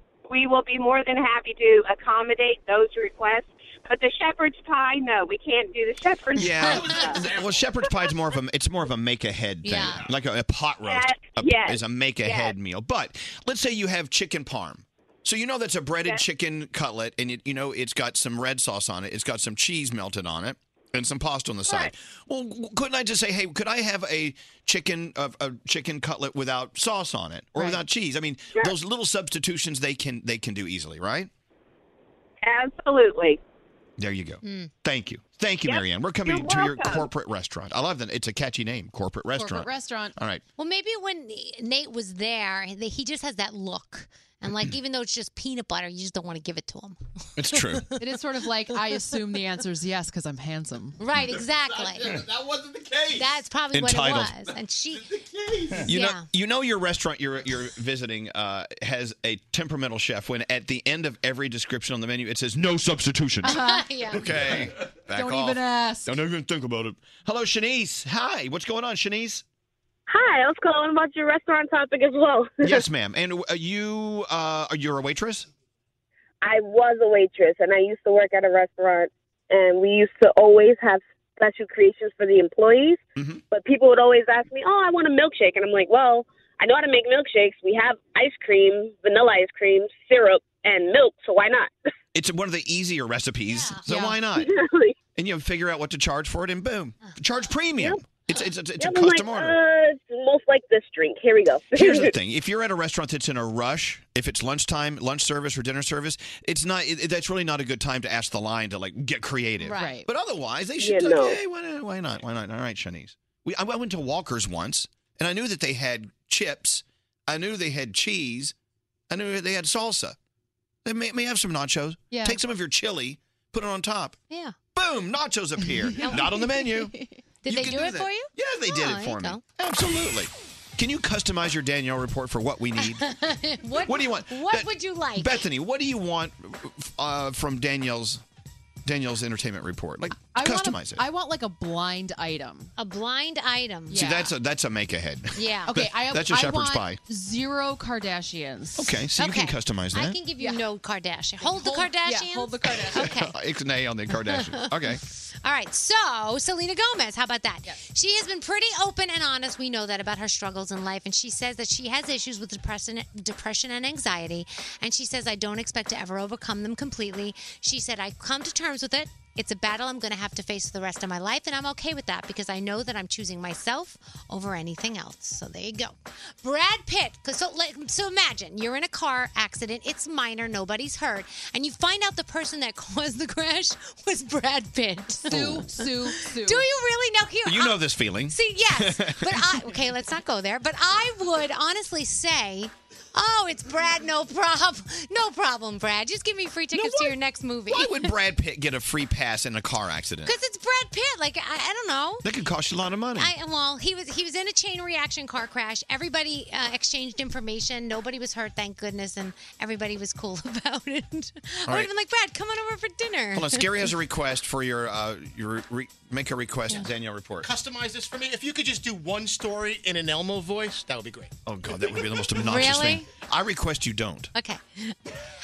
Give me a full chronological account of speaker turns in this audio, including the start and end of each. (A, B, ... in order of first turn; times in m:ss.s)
0:00.3-0:07.2 A
0:06.4-0:31.3 B
0:09.6-0:10.1 C
0:10.9-0:12.6 A
0:32.4-0:33.4 A
0:34.0-0:40.4 B
0:34.4-0:34.7 C
0:35.7-0:37.0 A
0:39.4-0:40.2 D
0:40.6-0:47.0 C
0:47.4-0:47.9 B
0:48.0-0:51.0 D
0:51.0-0:52.2 C
0:53.1-0:55.2 C
0:53.7-0:54.4 B
0:55.9-1:09.4 B
0:55.9-0:56.3 C
1:03.4-1:03.9 D
1:03.5-1:04.5 C
1:05.1-1:06.1 D
1:10.1-1:12.8 E
1:12.6-1:15.5 B
1:16.4-1:31.7 E
1:32.1-1:34.5 B
1:33.5-1:33.8 C
1:33.9-1:34.2 D
1:34.4-1:35.0 E
1:35.2-1:39.6 B
1:38.8-1:42.1 E
1:41.8-1:58.5 B
1:49.6-1:50.0 C
1:49.8-1:50.1 D
1:50.8-1:51.4 E
1:59.1-2:00.2 B
2:00.8-2:04.2 B
2:02.1-2:02.4 D
2:04.3-2:04.6 C
2:04.7-2:06.9 B
2:05.9-2:07.2 D
2:06.0-2:06.3 C
2:07.4-2:09.4 C
2:07.5-2:13.1 B
2:12.8-2:15.4 C
2:13.8-2:18.2 B
2:18.8-2:21.0 B
2:20.2-2:22.7 D
2:22.8-2:24.2 C
2:23.9-2:24.3 D
2:23.9-2:27.0 B
2:25.4-2:25.7 C
2:25.7-2:28.9 D
2:28.8-2:30.2 B
2:29.2-2:33.3 C
2:31.4-2:33.1 D
2:32.9-2:35.0 B
2:34.1-3:18.1 C
3:05.2-3:06.7 D
3:07.5-3:09.5 B
3:16.7-3:17.1 B
3:17.7-3:20.3 B
3:20.2-3:22.3 C
3:22.2-3:23.3 B
3:23.2-3:33.9 C
3:33.4-3:37.5 B
3:37.4-3:41.3 F
3:41.5-3:44.3 B
3:42.4-3:43.0 C
3:44.4-3:45.0 C